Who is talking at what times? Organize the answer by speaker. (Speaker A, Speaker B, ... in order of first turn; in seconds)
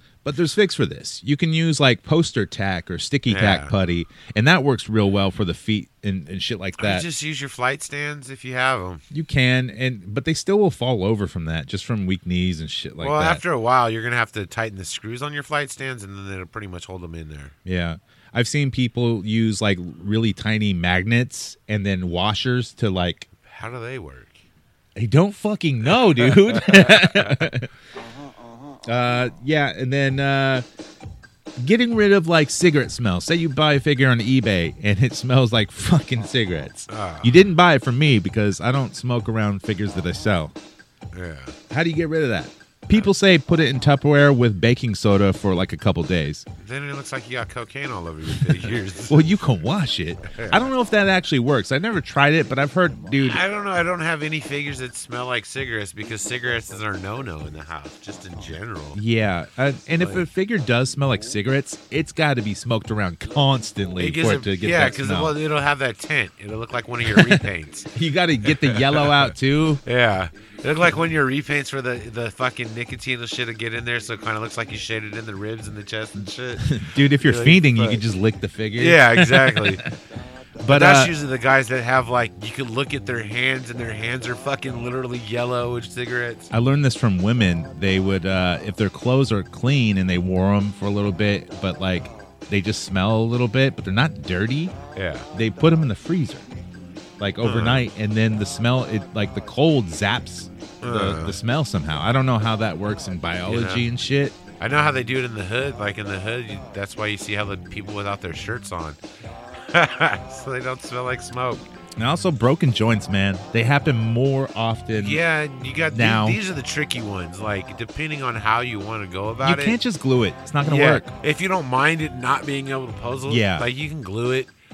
Speaker A: 0.2-7.1, 9.1-13.4, 17.6-23.3, 25.0-27.7, 28.9-30.6, 31.6-40.5, 41.7-46.5, 48.3-53.4, 59.0-65.4, 67.0-69.8, 76.6-79.9, 80.6-81.1, 86.5-94.8, 95.3-96.5, 97.2-104.4, 112.0-115.2, 115.9-116.4, 119.4-121.1, 123.3-123.7
Speaker B: 3.3-3.7, 6.8-9.0, 13.0-17.6, 23.4-24.4, 25.9-27.5, 36.9-37.4, 41.1-41.5, 46.6-49.2, 50.3-50.7, 53.2-59.0, 60.0-60.2, 64.0-67.9, 68.4-69.3, 69.8-78.0, 78.8-79.8, 80.7-86.5, 95.0-95.3, 97.4-97.9, 100.8-101.4, 103.5-103.9, 104.6-109.0, 109.6-111.7, 115.0-119.8, 120.6-124.5